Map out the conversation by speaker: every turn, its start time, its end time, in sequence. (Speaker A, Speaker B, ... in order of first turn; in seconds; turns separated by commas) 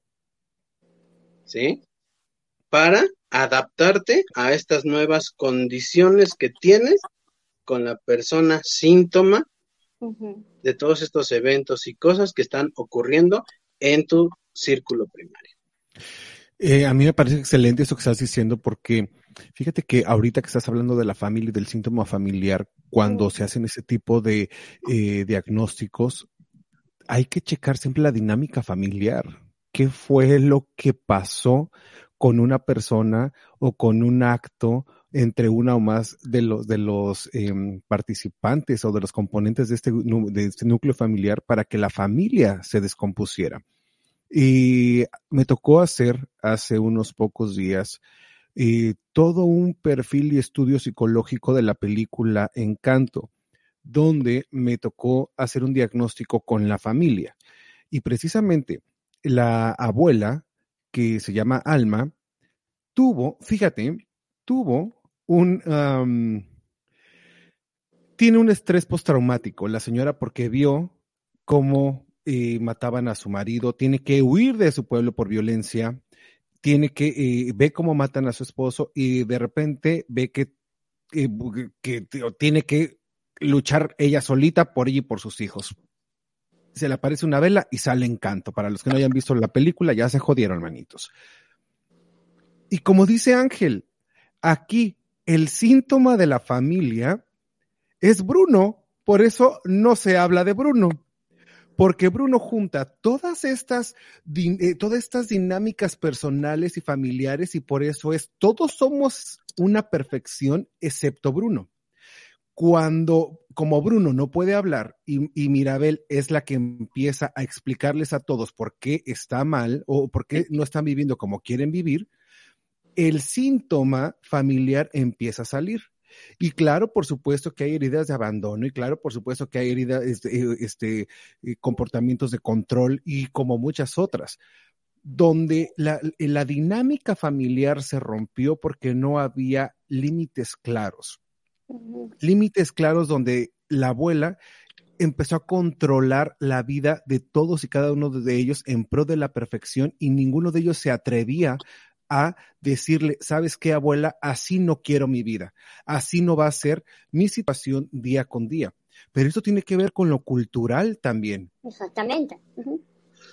Speaker A: 1.5-1.8, Speaker A: 2.7-7.0, Speaker A: 7.7-9.4, Speaker B: 10.0-10.4, Speaker A: 10.6-15.5, Speaker C: 16.6-26.3, Speaker C: 27.1-43.6, Speaker C: 44.3-48.0, Speaker C: 48.5-53.3, Speaker C: 53.8-57.4, Speaker C: 57.9-62.1, Speaker C: 62.9-66.5, Speaker C: 68.2-70.9, Speaker C: 71.5-76.0, Speaker C: 76.6-80.5, Speaker C: 81.1-85.7, Speaker C: 86.7-91.1, Speaker C: 92.7-93.8, Speaker C: 94.4-97.2, Speaker C: 98.0-101.0, Speaker C: 101.8-111.7, Speaker C: 112.5-122.1, Speaker C: 123.0-125.9, Speaker C: 126.4-134.4, Speaker C: 135.0-141.2, Speaker B: 141.7-142.1, Speaker C: 142.2-144.4, Speaker C: 145.0-161.5, Speaker B: 161.6-162.8